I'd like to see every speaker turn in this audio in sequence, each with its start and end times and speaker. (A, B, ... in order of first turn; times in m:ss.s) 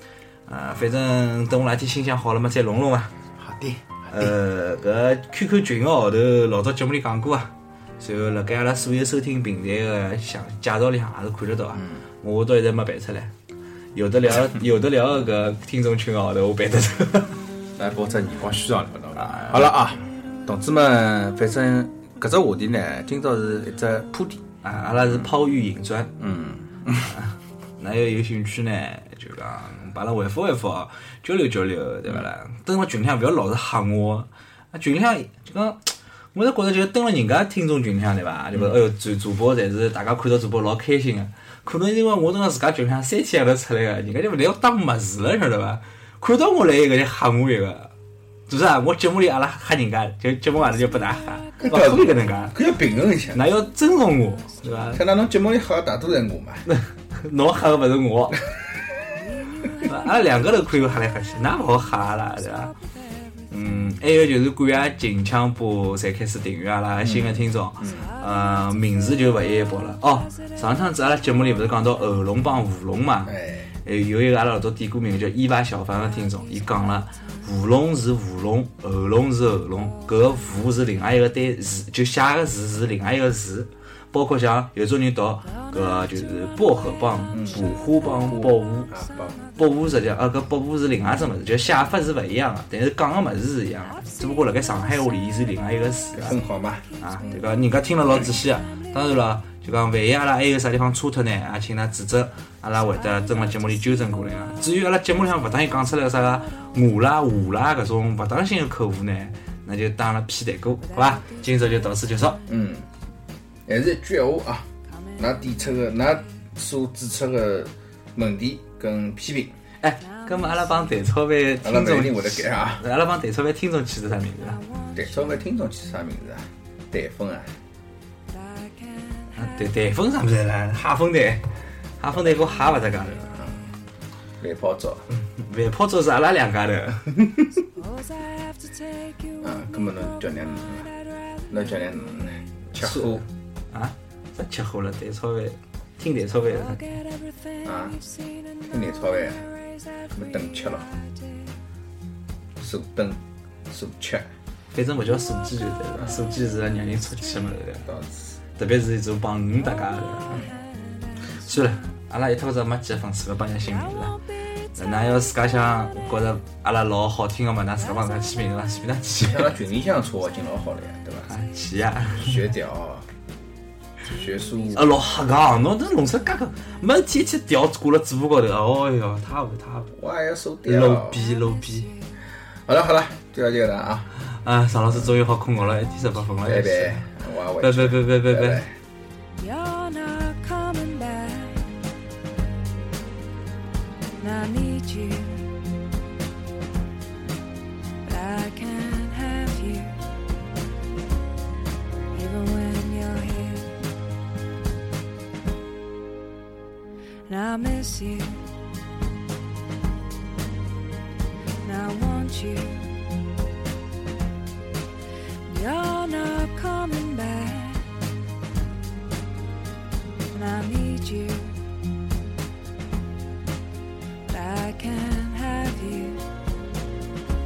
0:00.5-0:03.1 A
0:03.4-0:04.3 B
0:04.1-0:13.3 A
0:13.9-0:17.4 A
0:17.8-0:24.4 B
0:19.2-0:19.7 A
0:24.6-0:26.1 A
0:26.2-0:27.1 B
0:27.0-0:47.9 A
0:48.5-0:52.6 A
0:51.6-0:53.4 B
0:53.3-0:55.0 A
0:54.9-0:56.6 B
0:56.6-0:58.4 A
0:59.8-1:02.7 A
1:03.5-1:03.7 B
1:03.6-1:28.9 A
1:07.0-1:08.1 B
1:13.3-1:13.7 B
1:27.3-1:29.4 B
1:29.6-1:36.4 A
1:36.1-1:37.4 B
1:37.0-1:52.4 A
1:52.4-1:52.9 B
1:53.7-1:59.5 B
1:59.8-2:04.6 A
2:01.6-2:02.8 B
2:04.9-2:07.5 B
2:09.4-2:11.5 A
2:12.0-2:13.3 A
2:14.4-2:15.0 B
2:15.1-2:17.2 A
2:18.2-2:18.4 C
2:19.4-2:20.9 B
2:21.5-2:23.2 B
2:22.8-2:27.0 A
2:27.6-2:28.0 B
2:28.6-2:29.5 B
2:30.1-2:30.9 B
2:32.6-2:34.3 B
2:34.7-2:37.8 A
2:37.8-2:38.4 B
2:38.6-2:40.5 A
2:41.3-2:44.2 A
2:44.7-2:49.5 A
2:49.2-2:51.3 B
2:51.3-2:52.4 A
2:52.2-2:53.1 B
2:54.0-2:54.9 B
2:54.7-2:59.9 A
2:59.9-3:01.2 B
3:00.6-3:01.9 A
3:02.6-3:04.1 B
3:04.3-3:07.1 A
3:06.4-3:08.8 B
3:07.6-3:08.6 A
3:09.4-3:11.7 C
3:14.2-3:15.6 C
3:18.0-3:20.0 C
3:22.1-3:23.8 C
3:27.3-3:28.5 C
3:31.6-3:33.0 C
3:35.5-3:37.9 C
3:40.3-3:41.6 C
3:44.2-3:46.2 C